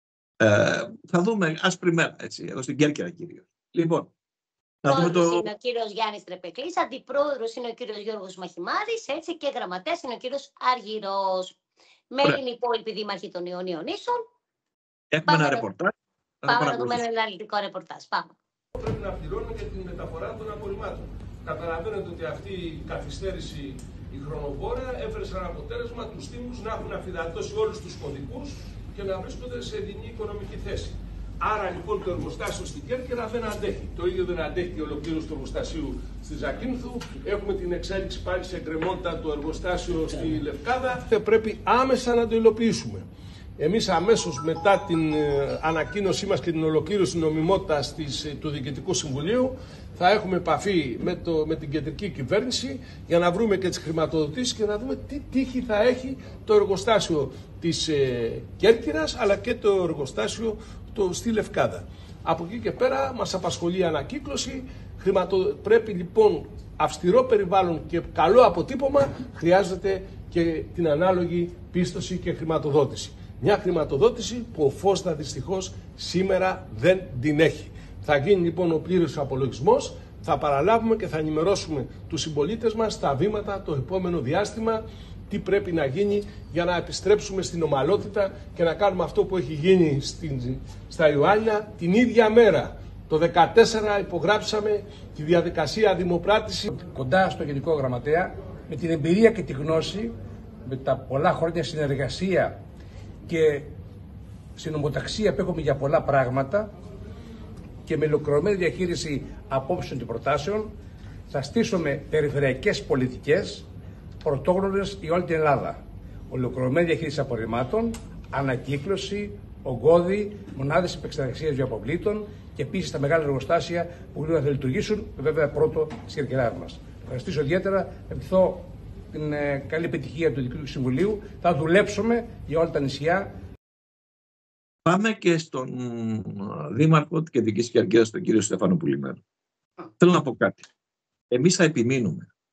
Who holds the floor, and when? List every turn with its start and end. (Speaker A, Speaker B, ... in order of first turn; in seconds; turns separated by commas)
Speaker A: 0.4-4.1, Speaker A: 4.8-5.5, Speaker B: 4.9-11.6, Speaker B: 12.1-14.2, Speaker A: 15.1-17.0, Speaker B: 15.3-15.6, Speaker B: 16.5-18.3, Speaker C: 18.8-43.1, Speaker C: 43.6-96.7, Speaker D: 96.7-100.1, Speaker D: 100.6-102.6, Speaker D: 103.3-103.7, Speaker D: 104.6-106.7, Speaker D: 107.8-110.7, Speaker D: 111.3-113.7, Speaker D: 114.2-133.3, Speaker A: 134.8-139.2, Speaker A: 140.0-140.6, Speaker A: 141.3-142.3